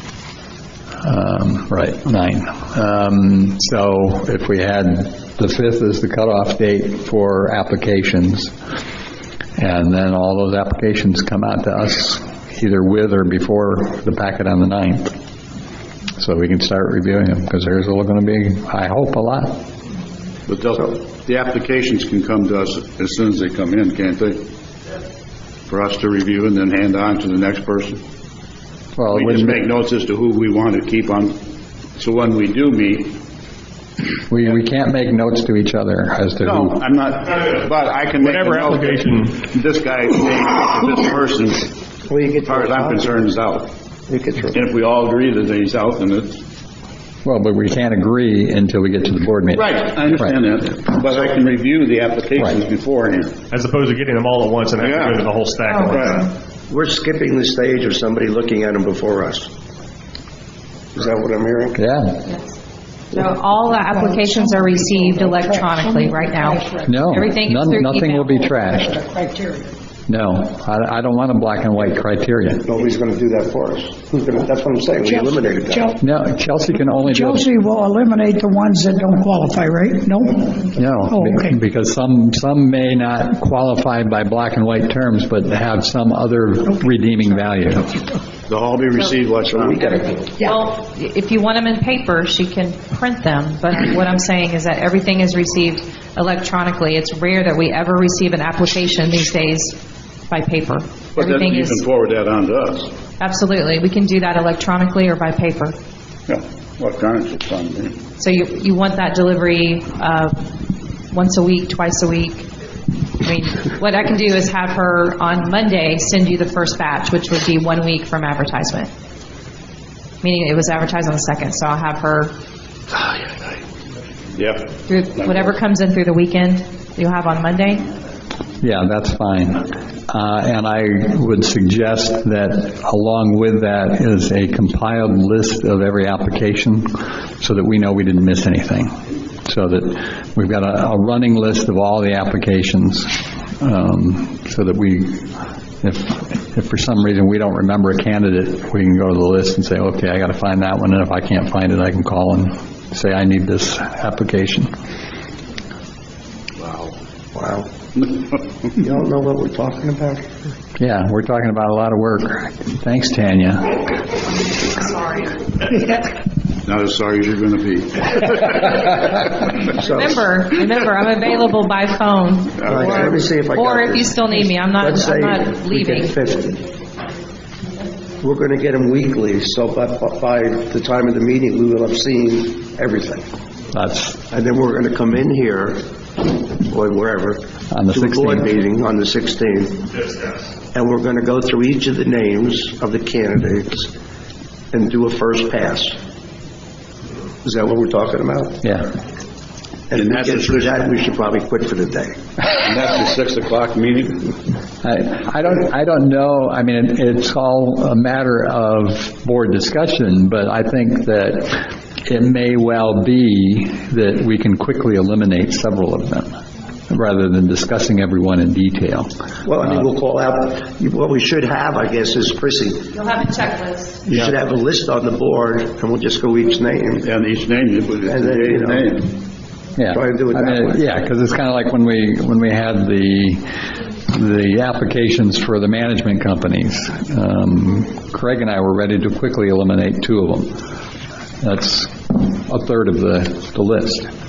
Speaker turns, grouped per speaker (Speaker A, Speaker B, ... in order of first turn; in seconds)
Speaker A: 1.0-8.5, 9.6-15.1, 16.2-19.6, 29.0-29.6, 34.3-36.8, 47.2-50.3, 61.8-62.2, 66.8-69.1, 70.1-72.7, 76.0-77.5, 80.7-88.0, 128.6-138.9, 139.4-154.7, 160.8-163.9, 183.7-184.2, 187.7-188.6, 198.6-198.9, 204.8-216.4, 216.9-219.8, 229.8-233.5, 234.1-240.6, 241.4-244.1
Speaker B: 20.5-24.4, 25.7-28.0, 29.1-31.4, 32.0-33.2, 36.4-41.7, 42.4-43.7, 44.5-46.4, 49.5-53.4, 54.8-55.3, 55.9-56.2, 88.5-90.0, 101.2-102.9, 106.3-108.0, 124.4-124.7, 156.6-156.9, 166.7-168.9, 199.9-200.8, 202.4-204.3, 227.0-229.1
Speaker C: 38.2-39.4, 53.5-56.2
Speaker D: 42.1-43.3, 44.1-44.6, 56.7-59.5, 60.9-61.8, 72.7-75.9, 89.3-90.3, 157.3-157.7, 158.8-160.4, 169.8-170.2, 172.6-176.7, 178.2-183.2, 184.3-189.9, 190.7-193.9, 194.7-196.0, 197.4-198.6, 199.9-202.2, 219.4-222.9, 224.1-227.1, 228.1-229.0, 229.9-230.8
Speaker E: 55.7-56.3, 62.3-62.5, 63.1-68.4, 90.2-99.8, 100.3-101.8, 103.2-105.8, 108.2-110.4, 111.1-112.5, 113.2-118.9, 120.2-122.3, 124.9-127.8, 164.4-165.4, 169.7-176.1, 222.9-224.1
Speaker F: 65.8-66.8, 69.1-69.6, 75.0-76.0, 77.1-81.6